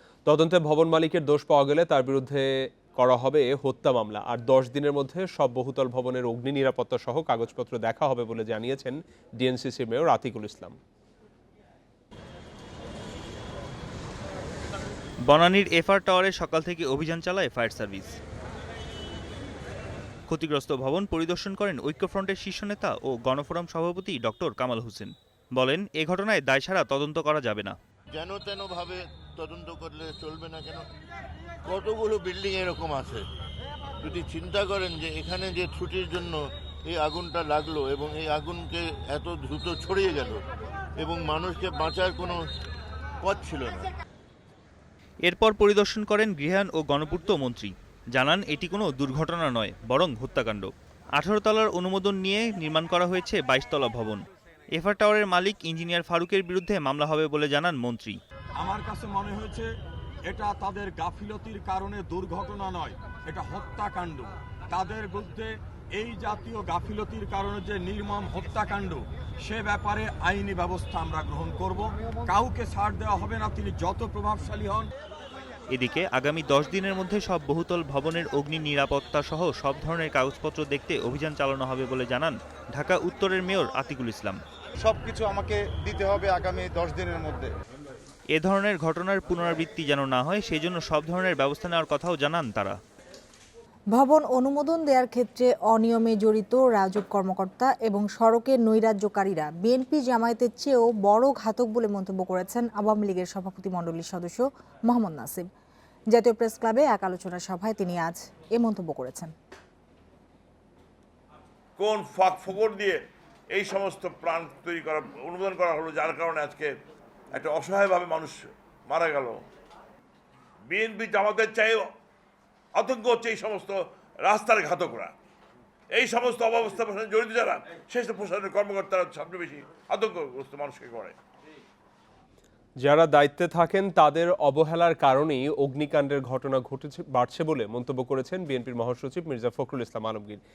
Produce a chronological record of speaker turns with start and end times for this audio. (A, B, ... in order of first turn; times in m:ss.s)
0:00.2-0:10.8 A
0:15.3-0:18.1 B
0:20.3-0:27.8 B
0:28.1-0:30.8 C
0:31.7-0:33.2 C
0:34.0-0:36.4 C
0:36.9-0:40.4 C
0:41.0-0:42.4 C
0:43.2-0:43.9 C
0:45.3-0:54.2 B
0:54.7-0:58.2 B
0:58.6-0:59.7 D
1:00.3-1:14.9 D
1:15.7-1:24.4 B
1:24.8-1:27.5 E
1:28.3-1:32.8 B
1:33.9-1:45.4 F
1:46.1-1:49.3 F
1:51.8-1:56.7 G
1:57.3-1:59.4 G
2:00.7-2:01.9 G
2:02.7-2:05.1 G
2:05.9-2:11.2 G
2:12.8-2:20.4 A